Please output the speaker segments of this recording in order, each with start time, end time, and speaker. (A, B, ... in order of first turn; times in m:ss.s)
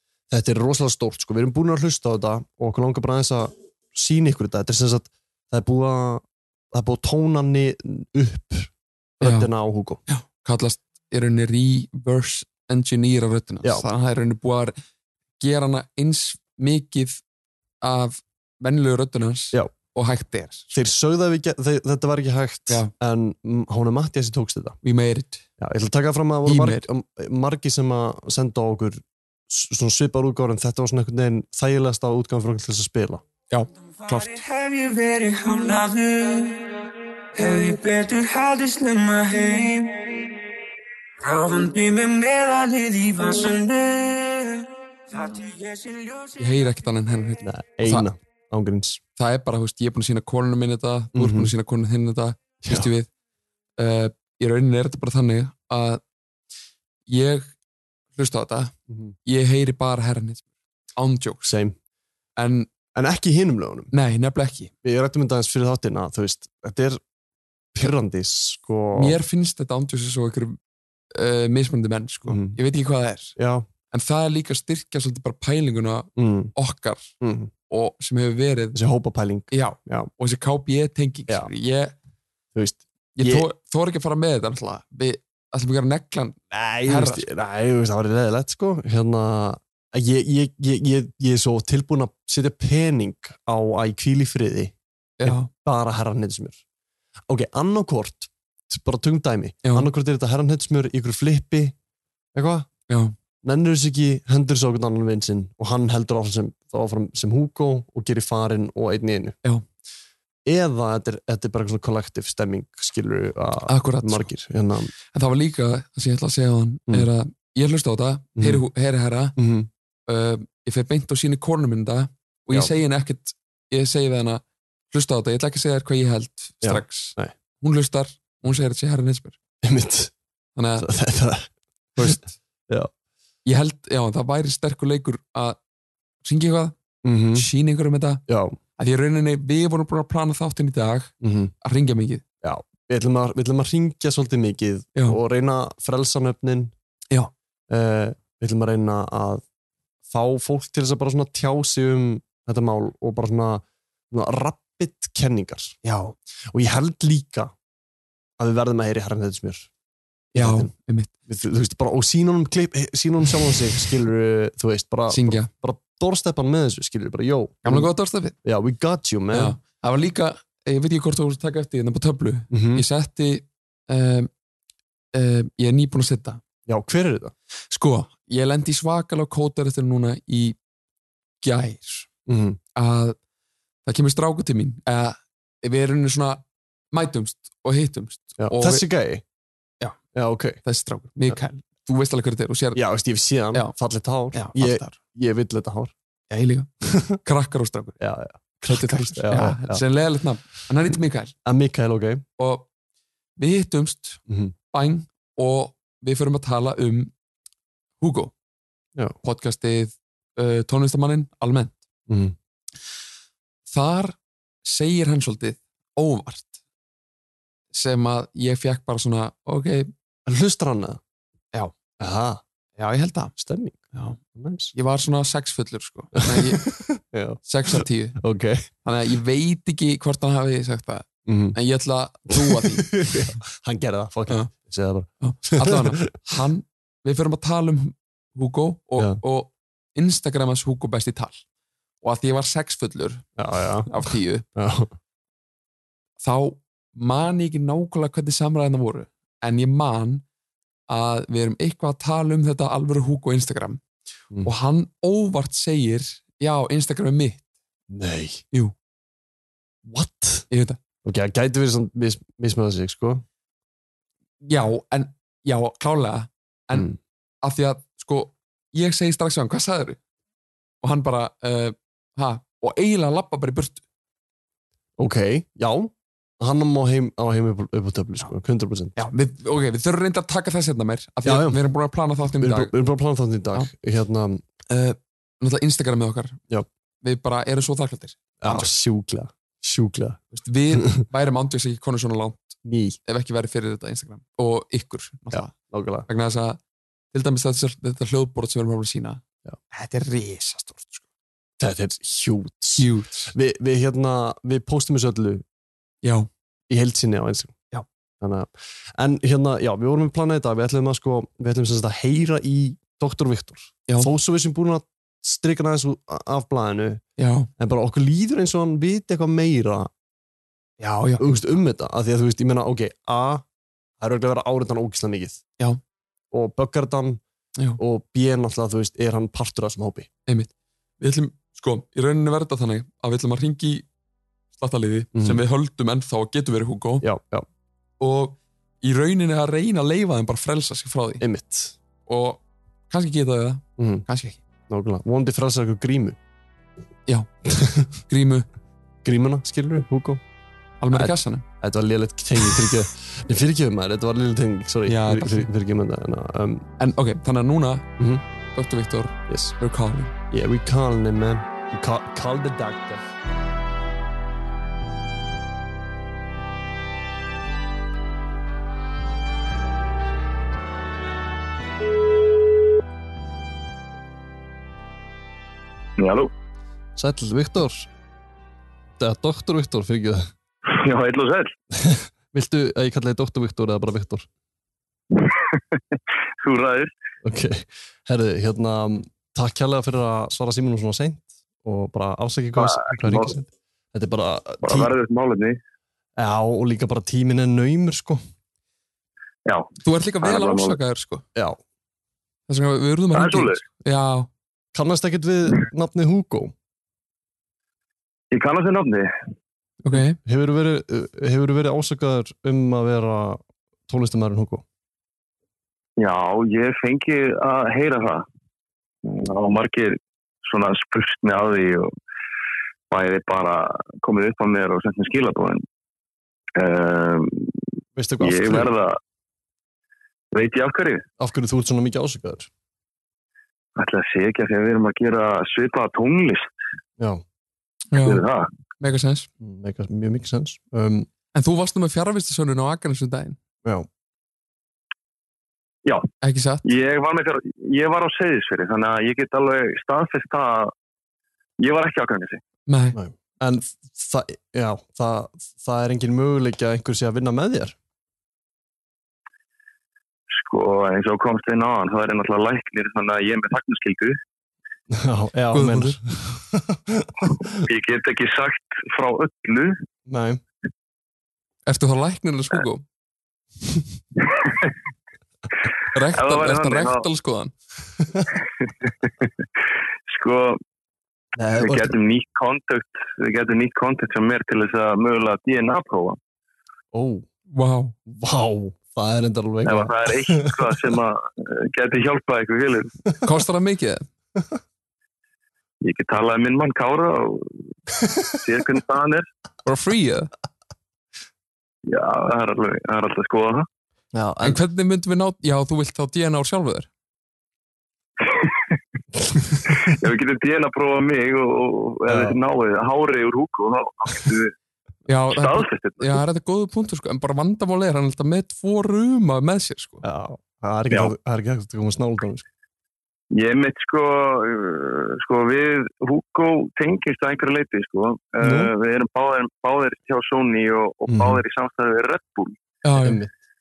0:00.3-0:10.0 A
0:09.2-0:09.5 B
0:10.1-0:14.8 B
0:15.4-0:17.2 B
0:17.8-0:20.7 B
0:20.7-0:24.8 A
0:24.8-0:25.4 B
0:25.6-0:33.2 A
0:26.4-0:26.8 B
0:33.5-0:34.4 B
0:34.1-0:40.3 C
0:41.2-0:46.6 C
0:46.4-0:48.1 B
0:47.4-0:49.0 A
0:49.2-0:53.1 B
0:51.1-0:51.5 A
0:52.6-0:52.9 A
0:53.8-0:56.0 B
0:57.1-0:57.5 B
0:58.2-1:01.5 B
0:58.9-0:59.1 A
1:01.4-1:01.8 A
1:02.4-1:02.7 B
1:02.9-1:03.9 A
1:03.9-1:04.7 B
1:04.8-1:07.0 A
1:07.7-1:09.2 A
1:09.0-1:10.6 B
1:11.1-1:13.4 B
1:12.3-1:12.6 A
1:13.4-1:13.6 A
1:13.9-1:17.1 B
1:16.2-1:16.5 A
1:17.2-1:17.5 A
1:17.7-1:18.8 B
1:18.7-1:20.1 A
1:19.5-1:21.9 B
1:22.5-1:23.5 A
1:23.2-1:27.3 B
1:26.5-1:36.6 A
1:35.2-1:35.5 B
1:37.3-1:41.7 A
1:42.3-1:42.7 A
1:42.9-1:43.1 B
1:43.4-1:49.4 A
1:50.4-1:54.9 A
1:53.7-1:54.3 B
1:55.1-1:59.4 B
1:58.4-1:58.6 A
1:59.4-1:59.7 A
2:00.1-2:09.4 B
2:06.6-2:07.3 A
2:09.6-2:10.1 A
2:10.6-2:10.9 B
2:10.8-2:12.9 A
2:12.0-2:12.3 B
2:13.4-2:15.6 B
2:16.2-2:16.7 B
2:17.0-2:17.4 A
2:17.3-2:18.2 B
2:18.3-2:18.6 A
2:18.8-2:22.2 B
2:21.2-2:21.5 A
2:22.4-2:26.7 A
2:27.7-2:29.4 A
2:30.1-2:35.8 A
2:35.8-2:36.1 B
2:36.5-2:37.5 A
2:38.4-2:39.7 A
2:40.3-2:40.7 A
2:40.4-2:41.1 B
2:41.2-2:47.9 A
2:45.1-2:45.5 B
2:47.6-2:48.4 B
2:48.4-2:49.6 A
2:49.3-2:54.3 B
2:52.5-2:52.8 A
2:55.1-2:56.4 B
2:56.7-2:57.3 A
2:57.7-3:00.6 B
3:01.4-3:02.1 B
3:02.3-3:02.6 A
3:02.8-3:03.2 B
3:03.8-3:08.8 B
3:08.4-3:09.2 A
3:10.1-3:10.6 A
3:10.6-3:12.8 B
3:12.7-3:15.9 A
3:14.3-3:15.0 B
3:16.3-3:16.7 B
3:16.9-3:17.2 A
3:17.2-3:18.0 B
3:18.0-3:19.8 A
3:18.7-3:21.3 B
3:21.4-3:22.2 A
3:22.4-3:22.7 B
3:23.4-3:27.1 B
3:24.3-3:24.5 A
3:28.0-3:28.3 B
3:29.2-3:31.8 B
3:32.1-3:32.3 A
3:33.7-3:36.6 B
3:37.7-3:39.9 B
3:40.2-3:41.0 A
3:42.0-3:42.4 A
3:42.8-3:43.3 B
3:43.4-3:44.7 A
3:43.9-3:44.2 B
3:44.7-3:46.7 B
3:46.3-3:48.7 A
3:47.4-3:48.2 B
3:48.8-3:53.0 B
3:51.2-3:51.6 A
3:52.3-3:56.0 A
3:55.2-4:01.4 B
4:02.0-4:03.3 B
4:03.4-4:04.9 A
4:03.8-4:04.4 B
4:06.2-4:10.2 B
4:10.9-4:13.8 B
4:14.4-4:17.4 B
4:17.9-4:18.4 A
4:19.8-4:20.5 A
4:20.5-4:20.8 B
4:21.0-4:23.2 A
4:24.4-4:26.9 B
4:27.4-4:30.0 B
4:30.8-4:33.8 B
4:35.0-4:39.0 A
4:39.0-4:42.7 B
4:41.2-4:41.6 A
4:42.4-4:44.4 A
4:44.7-4:46.4 B
4:47.0-4:48.7 B
4:48.4-4:51.0 A
4:50.3-4:55.5 B
4:52.6-4:53.0 A
4:55.3-4:56.1 A
4:56.1-4:56.6 B
4:57.1-5:01.0 B
5:01.6-5:05.4 A
5:02.8-5:03.3 B
5:06.0-5:06.3 B
5:06.7-5:07.6 A
5:08.2-5:17.0 A
5:17.2-5:17.5 B
5:17.6-5:19.9 A
5:20.8-5:21.3 B
5:21.2-5:23.4 A
5:24.0-5:25.4 A
5:26.3-5:27.2 A
5:27.8-5:30.1 A
5:30.3-5:33.8 B
5:34.6-5:37.1 B
5:35.1-5:35.4 A
5:37.0-5:37.5 A
5:38.0-5:41.2 B
5:41.2-5:41.8 A
5:42.0-5:44.4 B
5:43.8-5:44.0 A
5:44.7-5:46.2 A
5:47.5-5:47.9 A
5:47.9-5:48.5 B
5:49.0-5:50.2 A
5:50.8-5:51.4 B
5:50.9-5:56.7 A
5:54.9-5:55.5 B
5:56.8-5:57.9 B
5:58.0-5:58.2 A
5:58.5-6:00.1 B
5:59.3-5:59.5 A
6:00.3-6:03.1 A
6:16.0-6:16.3 D
6:17.0-6:17.9 A
6:19.0-6:20.3 A
6:20.6-6:21.5 D
6:21.7-6:24.3 A
6:25.1-6:26.9 D
6:27.2-6:34.9 A
6:32.6-6:33.3 D
6:34.6-6:35.6 D
6:36.2-6:38.2 A
6:39.8-6:41.2 B
6:40.2-6:40.8 D
6:42.5-6:44.3 B
6:43.1-6:43.6 D
6:44.7-6:46.5 A
6:48.3-6:49.1 D
6:49.8-6:50.2 B
6:49.9-6:54.6 A
6:56.0-6:58.2 D
6:59.0-7:01.9 D
7:02.9-7:05.6 D
7:06.6-7:07.5 D
7:08.0-7:08.7 A
7:08.2-7:09.0 D
7:10.3-7:11.0 D
7:11.2-7:12.5 A
7:13.8-7:16.6 D
7:17.0-7:17.2 A
7:17.9-7:18.2 B
7:18.0-7:18.5 D
7:18.8-7:19.3 B
7:19.4-7:21.1 A
7:21.3-7:23.4 B
7:26.2-7:26.6 B
7:26.6-7:30.7 D
7:31.6-7:32.4 D
7:32.7-7:33.0 B
7:32.9-7:37.8 A
7:40.3-7:44.2 D
7:44.9-7:47.5 A
7:45.5-7:46.0 B
7:47.5-7:49.8 D
7:50.0-7:50.4 A
7:51.6-7:52.8 B
7:54.2-7:54.7 D
7:55.9-7:57.5 B
7:56.1-7:57.0 D
8:00.1-8:00.6 D
8:01.4-8:01.9 A
8:01.6-8:06.2 D
8:06.9-8:07.3 A
8:07.5-8:07.9 B
8:08.0-8:10.8 A
8:09.6-8:12.9 D
8:13.2-8:14.0 B
8:15.8-8:17.5 D
8:18.3-8:19.2 D
8:19.6-8:20.3 B
8:21.8-8:23.7 D
8:24.1-8:24.6 A
8:24.4-8:26.9 B
8:28.3-8:28.6 D
8:29.3-8:29.6 A
8:29.7-8:34.5 D
8:32.1-8:32.4 A
8:35.1-8:40.0 B
8:35.3-8:36.2 D
8:40.0-8:42.4 A
8:43.3-8:52.6 D
8:48.4-8:48.7 A
8:51.1-8:51.4 A
8:52.8-8:53.2 B
8:53.0-8:53.3 A